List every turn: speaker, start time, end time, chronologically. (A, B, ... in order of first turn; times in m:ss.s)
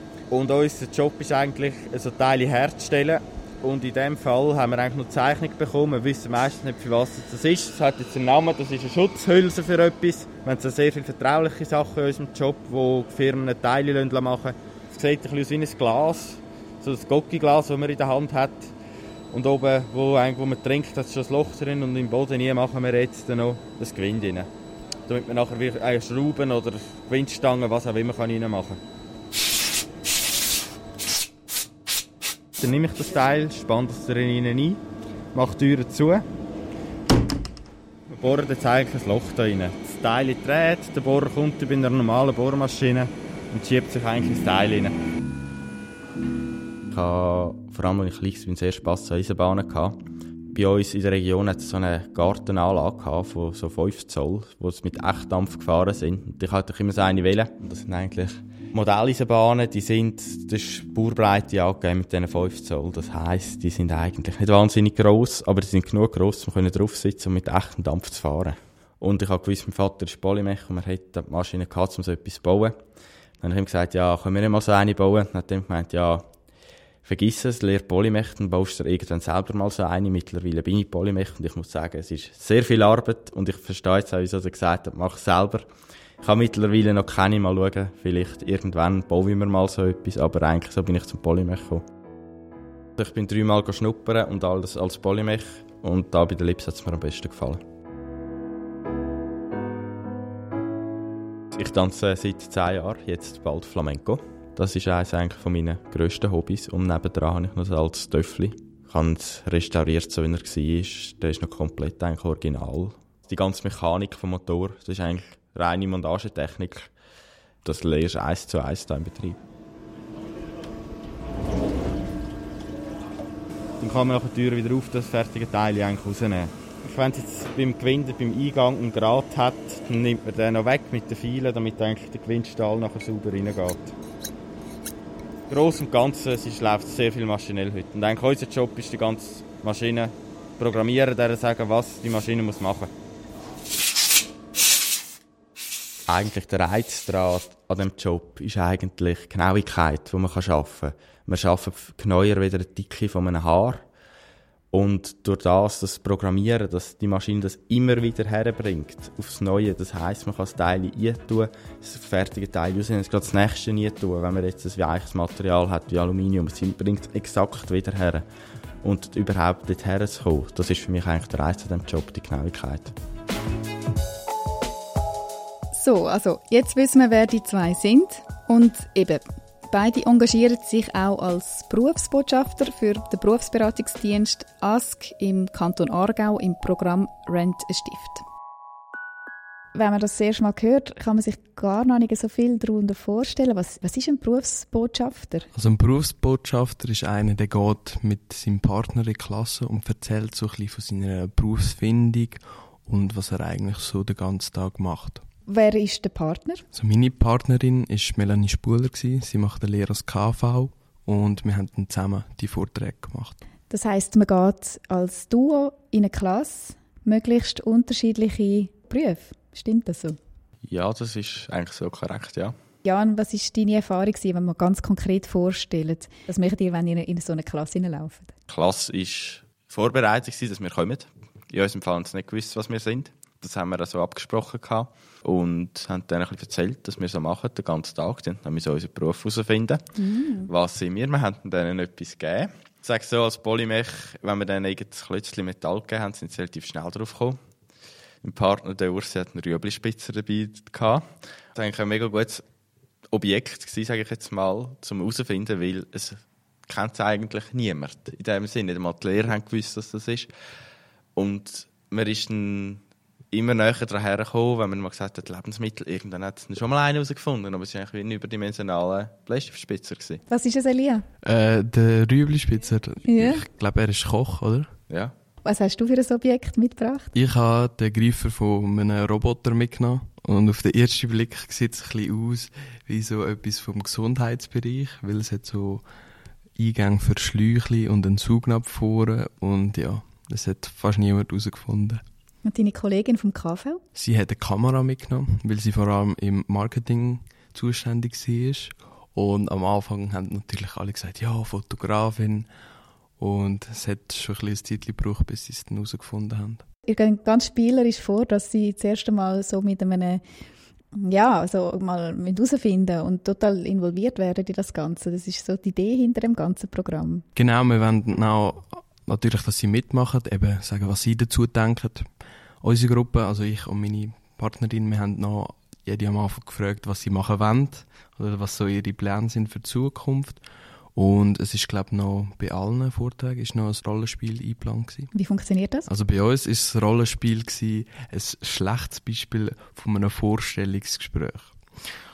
0:00.3-0:18.7 A
0:19.3-0:24.5 A
0:25.1-0:28.8 A
0:32.6-0:34.8 A
0:35.3-0:36.2 A
0:38.1-0:44.9 A
0:46.9-0:50.0 A
0:50.5-1:12.7 A
1:13.4-1:16.2 A
1:17.0-1:25.7 A
1:26.2-1:31.8 A
1:33.0-1:37.6 A
1:41.5-1:56.9 A
1:57.6-1:59.4 A
2:03.8-2:13.9 A
2:15.5-2:22.9 A
2:26.1-2:33.8 A
2:34.7-2:48.2 A
2:48.8-2:52.9 A
2:55.7-3:08.2 B
3:09.7-3:15.5 B
3:15.5-3:25.2 C
3:25.5-3:26.6 B
3:26.7-3:33.4 C
3:33.7-3:40.2 B
3:40.7-3:42.5 A
3:42.8-3:48.3 B
3:48.5-3:59.8 A
4:00.0-4:00.5 B
4:00.4-4:07.4 A
4:08.2-4:11.0 A
4:11.5-4:12.4 A
4:13.1-4:20.3 A
4:21.2-4:22.8 A
4:23.3-4:30.2 A
4:30.3-4:31.0 B
4:31.2-4:34.7 C
4:33.0-4:33.4 B
4:35.4-4:37.1 B
4:37.1-4:45.8 C
4:46.6-4:52.0 C
4:52.4-4:53.8 B
4:53.9-5:02.5 C
5:03.2-5:06.6 C
5:06.9-5:10.2 B
5:10.9-5:17.2 B
5:17.4-5:22.1 C
5:22.6-5:30.4 C
5:30.9-5:35.1 C
5:35.1-5:35.9 B
5:35.9-5:41.5 C